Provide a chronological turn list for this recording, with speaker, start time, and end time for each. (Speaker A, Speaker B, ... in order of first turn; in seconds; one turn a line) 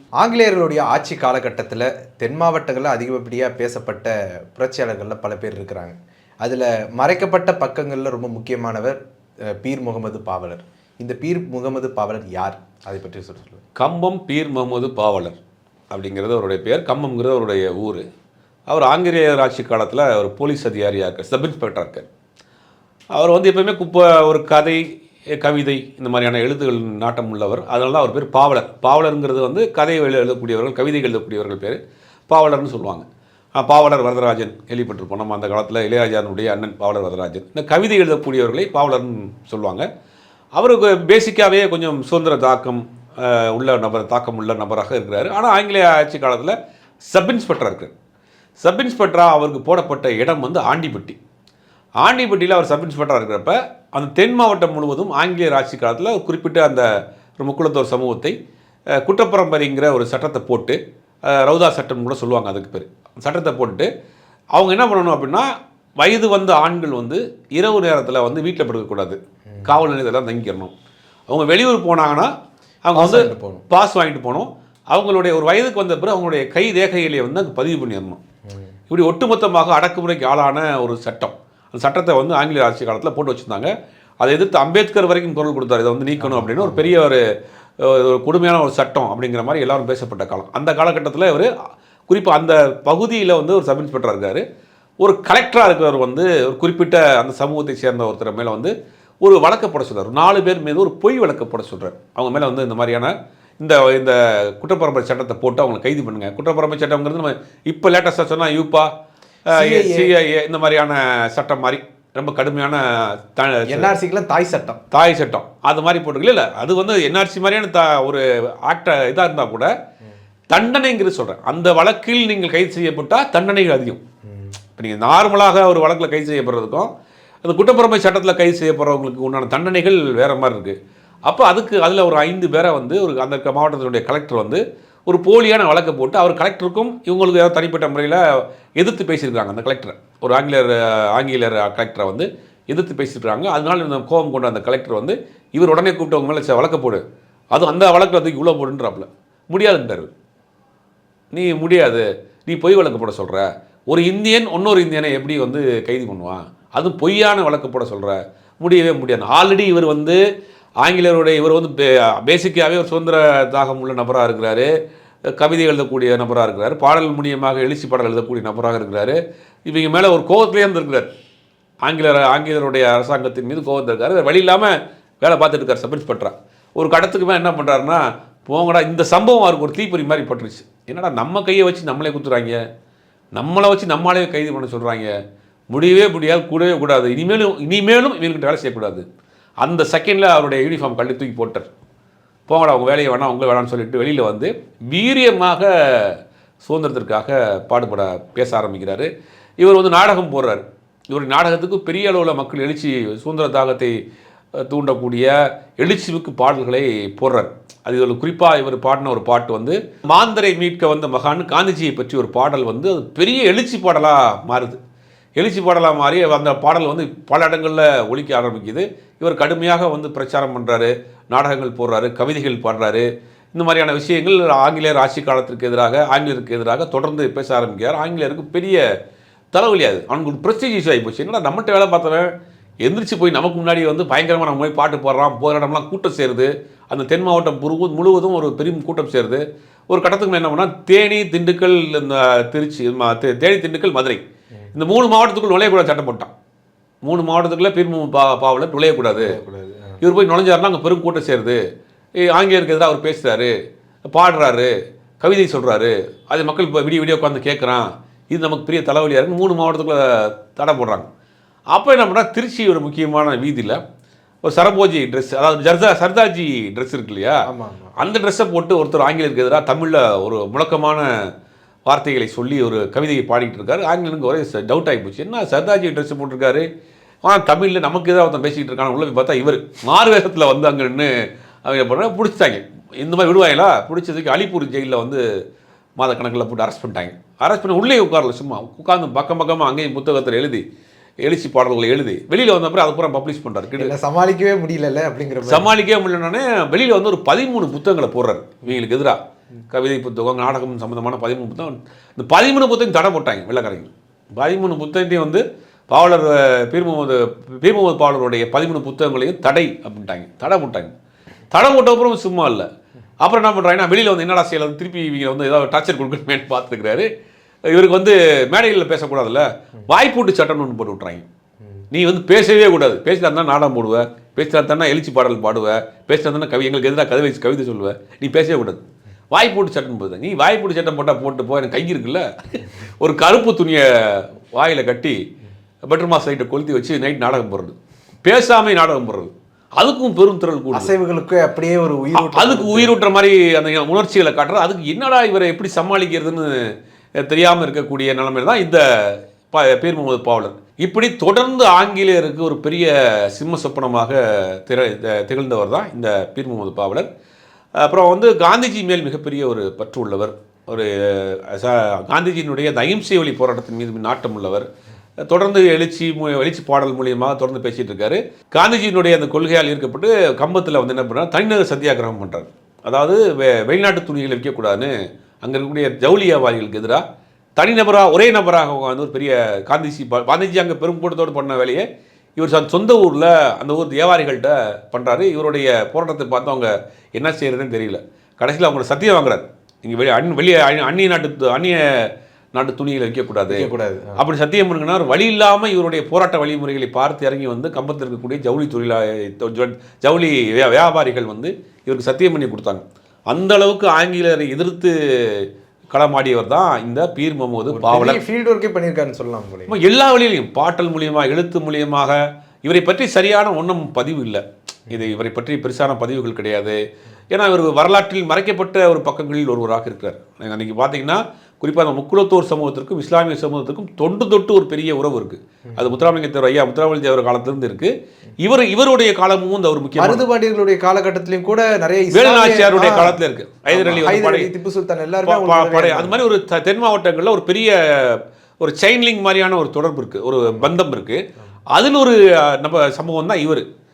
Speaker A: 0.2-9.0
Speaker A: 9.5-13.6
Speaker B: 13.7-15.4
Speaker B: 15.9-18.0
Speaker B: 18.7-22.1
Speaker B: 23.1-24.8
Speaker B: 25.4-39.9
Speaker B: 40.5-46.5
Speaker B: 47.1-47.9
Speaker B: 48.6-51.2
Speaker B: 52.0-56.9
Speaker B: 57.4-58.3
Speaker B: 58.9-63.9
Speaker B: 64.5-65.5
Speaker B: 66.0-70.7
Speaker B: 71.3-72.3
Speaker B: 72.8-78.2
Speaker A: 73.0-73.6
Speaker B: 78.9-87.2
Speaker A: 86.2-86.9
Speaker B: 87.8-91.5
Speaker B: 92.1-94.4
Speaker B: 95.0-108.9
Speaker A: 109.5-110.1
Speaker B: 109.5-113.9
Speaker A: 113.7-114.8
Speaker B: 114.9-119.7
Speaker B: 120.5-124.0
Speaker A: 124.3-124.5
Speaker B: 124.8-126.9
Speaker B: 127.4-130.7
Speaker B: 131.2-138.2
Speaker B: 138.8-150.1
Speaker B: 151.3-160.2
Speaker B: 160.8-164.7
Speaker B: 165.3-171.1
Speaker B: 171.8-182.6
Speaker B: 183.3-185.1
Speaker B: 185.7-189.0
Speaker B: 189.6-191.7
Speaker B: 192.5-199.1
Speaker B: 199.6-204.0
Speaker B: 204.6-214.8
Speaker B: 215.4-228.8
Speaker B: 229.5-232.3
Speaker B: 232.8-244.2
Speaker B: 244.7-246.3
Speaker B: 247.0-249.3
Speaker A: 249.1-250.0
Speaker B: 250.0-251.6
Speaker B: 252.2-253.5
Speaker B: 254.1-261.1
Speaker B: 261.7-263.8
Speaker B: 264.4-267.4
Speaker A: 267.5-267.9
Speaker B: 268.0-271.1
Speaker B: 271.9-276.7
Speaker B: 277.2-281.1
Speaker B: 281.6-285.2
Speaker B: 286.0-290.6
Speaker B: 291.2-293.9
Speaker A: 293.8-295.7
Speaker B: 295.4-299.2
Speaker B: 299.7-310.9
Speaker B: 311.5-312.7
Speaker B: 313.2-317.1
Speaker B: 317.7-321.2
Speaker B: 321.9-335.1
Speaker B: 335.9-340.9
Speaker A: 340.7-342.9
Speaker B: 342.1-346.6
Speaker B: 347.2-357.1
Speaker B: 357.8-364.6
Speaker B: 365.3-377.0
Speaker B: 377.6-381.8
Speaker B: 382.4-408.2
Speaker A: 393.5-394.2
Speaker A: 407.7-409.8
Speaker B: 409.7-430.2
Speaker A: 430.0-433.2
Speaker B: 432.1-434.5
Speaker A: 433.7-436.2
Speaker B: 435.2-443.6
Speaker A: 440.4-440.7